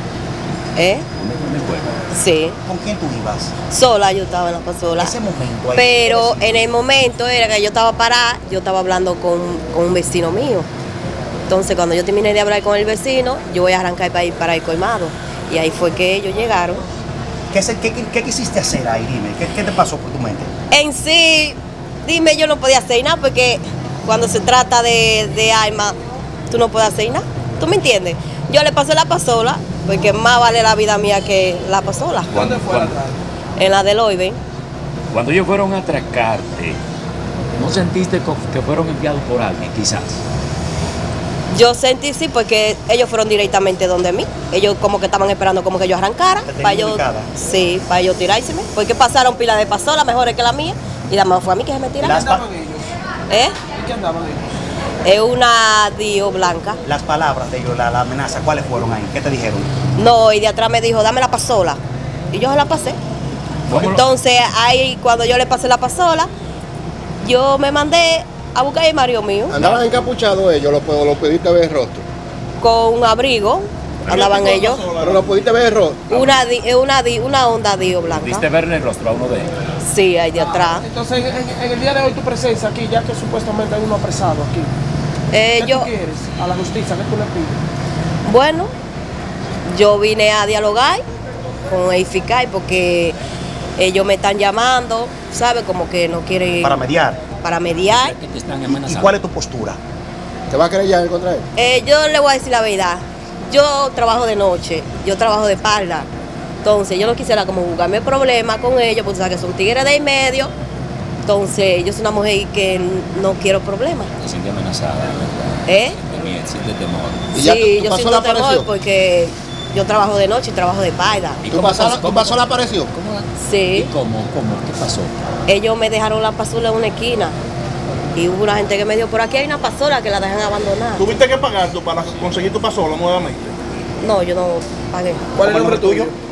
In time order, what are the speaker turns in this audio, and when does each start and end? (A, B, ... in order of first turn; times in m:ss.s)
0:00.8-0:01.0 A
0:01.2-0:01.9 B
0:02.1-0:02.6 A
0:02.6-0:03.5 C
0:03.7-0:05.2 A
0:05.0-0:06.6 C
0:05.7-0:10.7 A
0:11.5-0:16.8 A
0:17.5-0:20.5 C
0:20.7-0:26.0 A
0:26.5-0:32.4 A
0:32.3-0:32.9 B
0:32.3-0:33.2 D
0:33.6-0:34.4 A
0:35.1-0:36.8 B
0:37.6-0:40.2 B
0:41.5-0:52.2 A
0:46.4-0:47.3 C
0:52.0-0:52.4 C
0:52.0-0:52.9 D
0:53.3-0:53.6 A
0:53.7-0:54.6 D
0:55.0-0:56.8 A
0:56.8-0:59.7 C
1:00.0-1:01.8 A
1:02.3-1:03.0 A
1:03.7-1:04.0 B
1:03.7-1:06.3 A
1:07.2-1:09.6 A
1:09.5-1:12.0 E
1:09.6-1:09.8 B
1:12.6-1:14.9 A
1:14.1-1:15.6 F
1:15.0-1:16.1 E
1:16.1-1:18.5 A
1:16.1-1:16.4 B
1:18.1-1:19.5 B
1:19.8-1:20.9 A
1:20.6-1:24.7 D
1:25.3-1:25.9 A
1:25.6-1:27.6 D
1:28.2-1:28.7 A
1:29.6-1:31.0 A
1:31.7-1:33.2 A
1:33.8-1:36.8 A
1:36.6-1:37.2 C
1:37.4-1:38.2 A
1:37.9-1:39.1 B
1:38.7-1:39.8 C
1:40.5-1:41.4 E
1:41.6-1:46.1 A
1:46.6-1:50.5 A
1:51.2-1:54.1 A
1:54.2-1:57.3 B
1:55.7-1:56.0 A
1:57.3-1:58.7 E
1:57.3-2:01.4 A
2:01.4-2:05.1 B
2:01.5-2:02.9 E
2:03.4-2:03.9 A
2:05.5-2:07.4 A
2:08.2-2:11.1 A
2:11.0-2:13.6 F
2:14.0-2:15.2 A
2:15.4-2:16.2 D
2:15.4-2:16.1 C